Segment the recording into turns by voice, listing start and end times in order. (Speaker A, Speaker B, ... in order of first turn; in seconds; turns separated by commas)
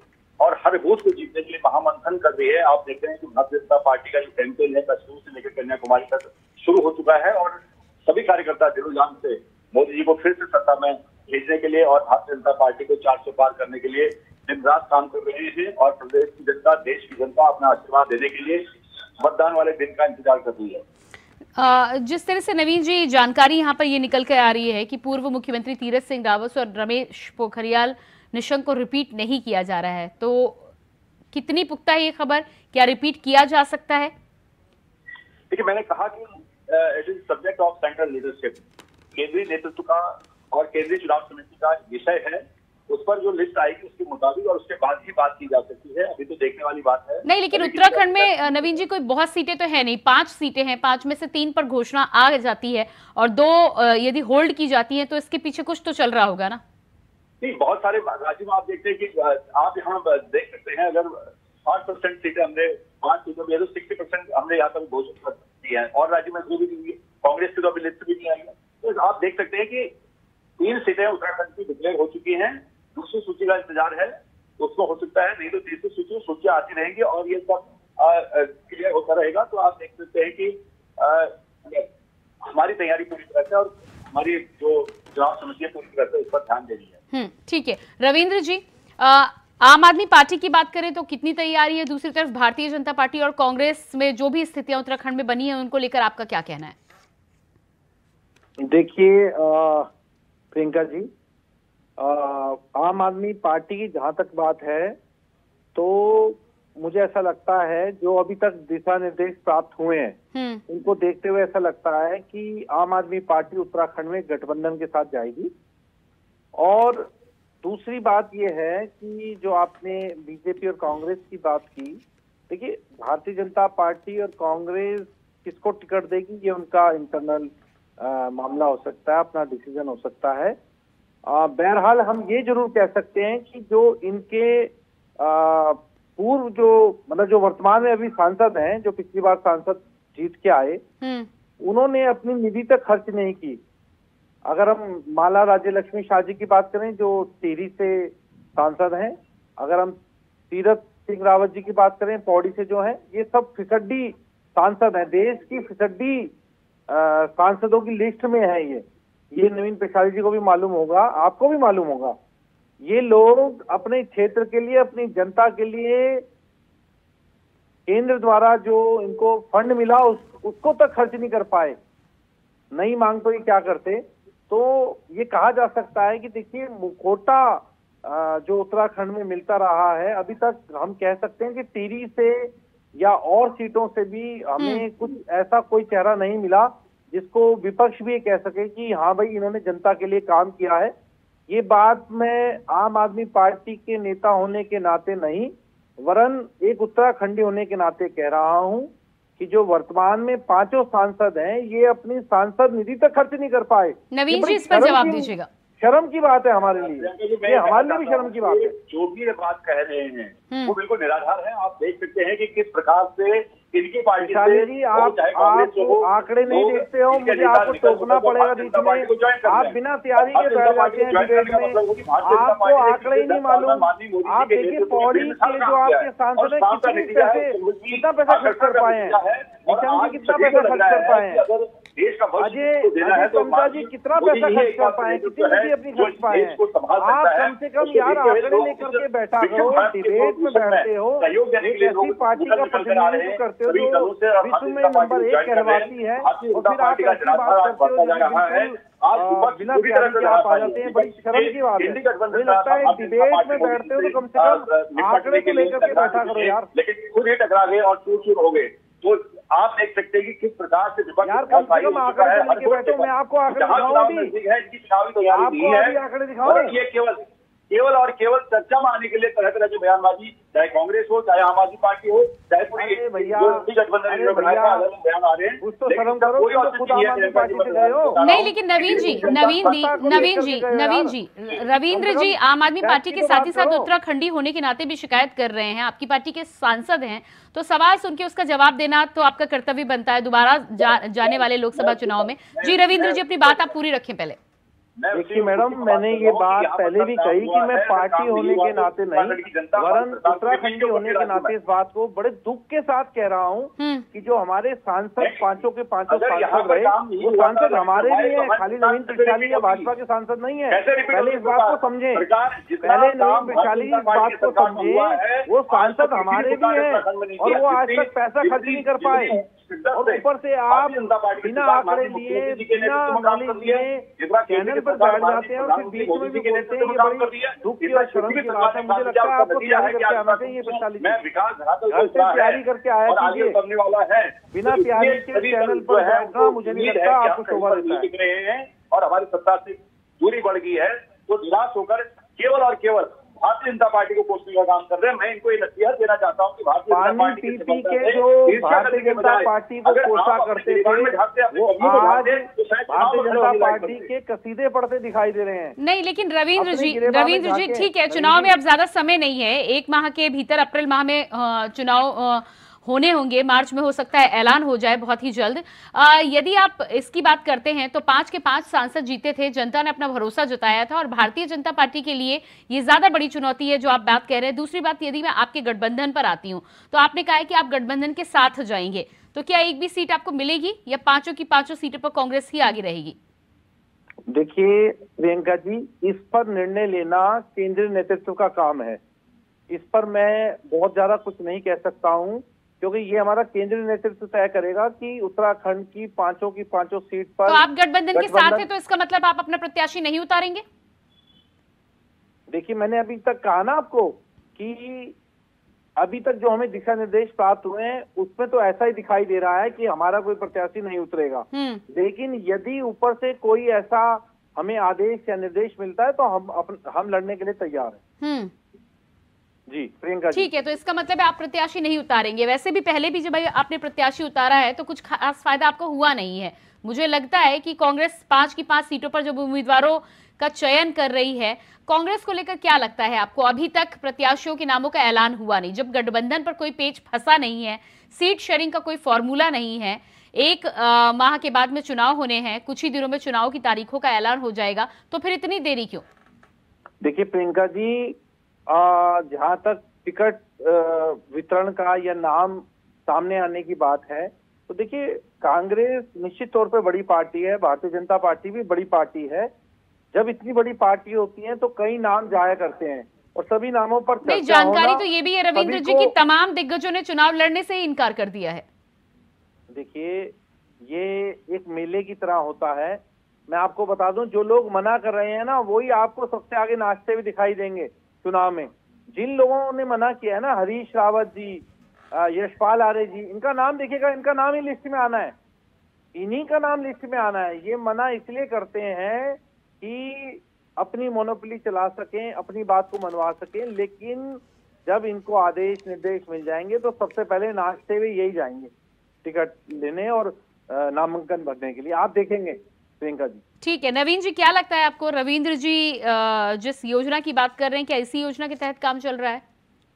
Speaker A: 0.4-18.6, Speaker A: 19.2-20.8, Speaker B: 21.6-30.6, Speaker B: 31.3-34.1, Speaker A: 35.5-38.6, Speaker A: 39.1-48.3, Speaker B: 47.2-56.6, Speaker A: 57.4-69.9, Speaker A: 70.6-81.9, Speaker A: 82.4-87.0, Speaker B: 87.1-96.8, Speaker C: 98.6-99.9, Speaker C: 100.5-101.1, Speaker C: 102.0-105.0, Speaker C: 105.7-110.2, Speaker B: 110.3-110.6, Speaker C: 110.7-115.5, Speaker C: 116.5-117.1, Speaker C: 117.6-130.6, Speaker C: 131.2-140.8, Speaker B: 141.0-141.3, Speaker C: 141.6-143.6, Speaker C: 144.4-149.9, Speaker C: 150.5-156.3, Speaker C: 156.9-162.2, Speaker C: 162.8-166.2, Speaker C: 167.9-171.8, Speaker C: 172.7-190.9, Speaker B: 184.6-184.8, Speaker C: 191.5-208.7, Speaker B: 204.1-205.5, Speaker A: 206.8-280.4, Speaker B: 210.5-210.8, Speaker C: 214.2-231.4, Speaker C: 232.4-256.7, Speaker C: 261.2-264.3, Speaker C: 265.3-266.7, Speaker C: 272.8-274.9, Speaker C: 275.6-281.1, Speaker B: 278.2-294.4, Speaker C: 281.9-283.9, Speaker A: 290.8-293.7, Speaker A: 295.0-301.5, Speaker C: 295.1-312.2, Speaker B: 303.8-304.1, Speaker A: 305.2-309.9, Speaker A: 310.7-354.1, Speaker C: 312.8-319.4, Speaker C: 319.9-331.2, Speaker C: 331.9-333.6, Speaker C: 334.5-338.1, Speaker C: 346.9-355.8, Speaker B: 355.8-383.1, Speaker C: 356.6-358.5, Speaker C: 384.3-389.0, Speaker C: 389.7-398.7, Speaker B: 397.4-400.6, Speaker C: 402.5-405.1, Speaker C: 406.0-418.0, Speaker B: 411.5-411.8, Speaker B: 418.2-418.5, Speaker C: 419.7-420.5, Speaker B: 420.3-446.0, Speaker C: 447.0-459.5, Speaker C: 460.1-466.1, Speaker B: 464.2-468.6, Speaker C: 469.7-470.3, Speaker C: 470.9-485.3, Speaker C: 486.1-498.7, Speaker C: 499.2-503.4, Speaker B: 503.6-509.4